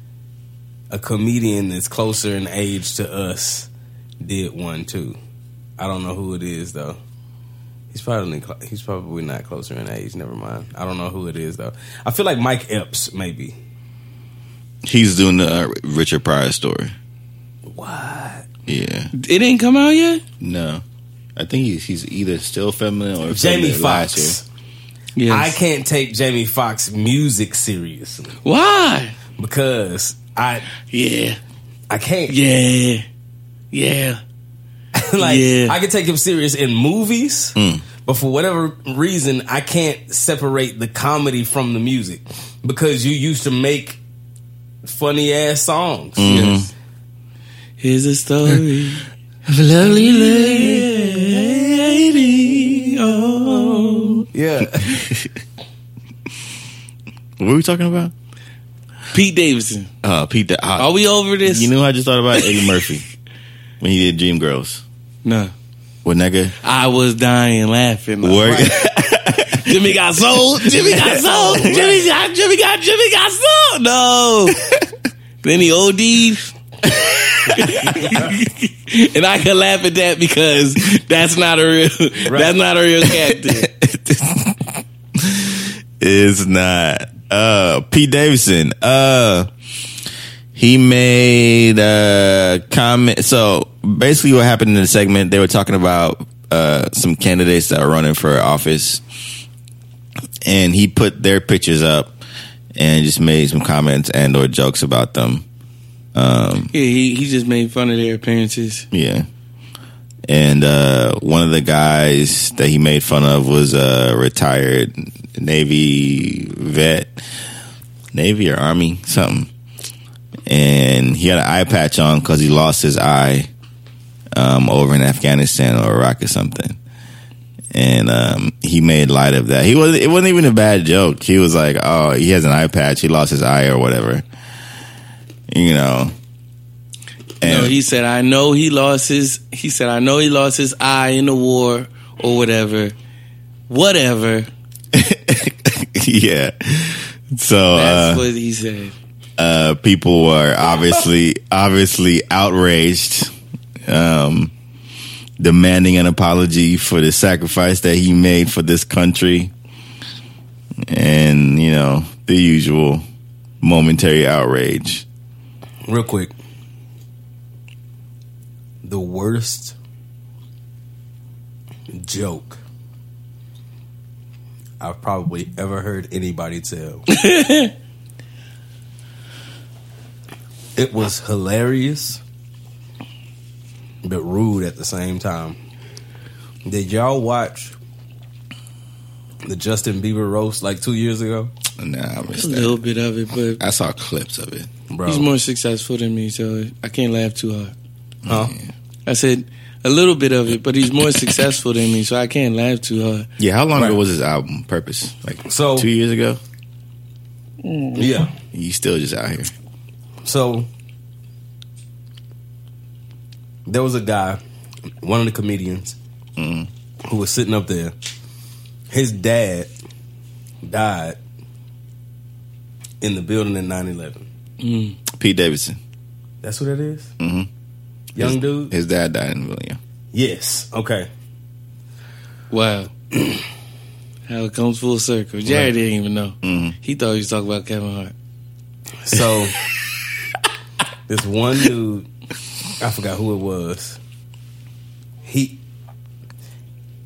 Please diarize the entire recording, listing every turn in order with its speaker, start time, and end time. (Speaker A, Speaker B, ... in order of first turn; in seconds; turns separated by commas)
Speaker A: 0.9-3.7, Speaker A: 4.2-5.2, Speaker A: 5.8-7.0, Speaker A: 7.9-13.6, Speaker B: 14.8-16.9, Speaker A: 17.7-18.4, Speaker B: 18.7-19.1, Speaker C: 19.1-20.2, Speaker B: 20.4-20.8, Speaker B: 21.4-24.4, Speaker A: 23.3-24.4, Speaker C: 25.1-25.6, Speaker A: 25.3-28.4, Speaker C: 28.4-29.1, Speaker A: 29.4-30.7, Speaker C: 30.9-31.4, Speaker A: 31.9-32.4, Speaker C: 32.3-33.0, Speaker C: 33.7-34.2, Speaker A: 34.9-44.0, Speaker C: 35.2-35.8, Speaker B: 37.5-37.8, Speaker A: 44.8-46.6, Speaker B: 46.2-46.7, Speaker C: 46.3-46.6, Speaker C: 47.8-49.0, Speaker C: 49.7-54.2, Speaker A: 51.2-51.5, Speaker A: 54.3-55.1, Speaker B: 54.9-55.3, Speaker B: 57.4-58.1, Speaker C: 59.1-59.9, Speaker B: 60.0-63.0, Speaker C: 60.8-61.7, Speaker B: 63.8-64.8, Speaker C: 65.2-65.5, Speaker B: 66.0-66.5, Speaker C: 66.6-68.7, Speaker B: 68.2-69.8, Speaker C: 69.5-74.6, Speaker B: 70.8-71.8, Speaker A: 71.3-72.0, Speaker C: 75.4-83.7, Speaker A: 77.9-78.3, Speaker A: 82.2-82.6, Speaker B: 83.5-84.6, Speaker B: 85.2-89.5, Speaker B: 90.5-99.0, Speaker B: 100.4-102.1, Speaker B: 102.8-105.4, Speaker B: 106.1-106.7, Speaker C: 106.7-108.8, Speaker B: 108.9-109.3, Speaker B: 110.3-117.2, Speaker B: 118.1-119.5, Speaker B: 120.5-123.5, Speaker B: 124.3-126.8, Speaker B: 127.7-134.2, Speaker B: 135.5-136.1, Speaker B: 137.4-137.7, Speaker C: 137.4-142.9, Speaker C: 143.7-144.5, Speaker B: 144.9-148.2, Speaker C: 147.7-148.9, Speaker B: 149.4-153.3, Speaker B: 153.8-154.5, Speaker B: 155.4-159.5, Speaker B: 160.9-163.0, Speaker B: 163.6-165.0, Speaker A: 165.9-166.3, Speaker A: 168.8-169.7, Speaker A: 171.9-172.6, Speaker A: 174.8-177.1, Speaker C: 177.1-177.7, Speaker A: 180.8-182.2, Speaker A: 184.0-185.6, Speaker A: 186.7-187.7, Speaker A: 189.4-191.5, Speaker B: 191.8-192.8, Speaker C: 192.3-193.6, Speaker B: 193.6-194.7, Speaker A: 194.9-195.3, Speaker C: 195.1-197.7, Speaker A: 198.3-198.5, Speaker B: 198.3-198.5, Speaker C: 199.1-203.3, Speaker B: 203.4-206.4, Speaker A: 205.5-205.9, Speaker A: 207.9-208.3, Speaker B: 208.5-209.5, Speaker A: 210.2-210.7, Speaker A: 213.7-214.4, Speaker A: 215.0-215.9, Speaker B: 216.4-216.7, Speaker A: 217.0-217.9, Speaker A: 218.9-219.7, Speaker A: 220.6-221.2, Speaker A: 223.0-224.2, Speaker C: 224.6-225.0, Speaker B: 225.1-225.8, Speaker A: 226.4-227.1, Speaker B: 227.2-227.5, Speaker A: 228.1-228.7, Speaker B: 228.2-229.8, Speaker A: 230.1-231.1, Speaker C: 232.5-232.9, Speaker C: 234.3-238.1, Speaker B: 236.4-236.7, Speaker A: 239.0-239.6, Speaker A: 241.1-242.1, Speaker A: 242.8-244.0, Speaker A: 245.2-245.6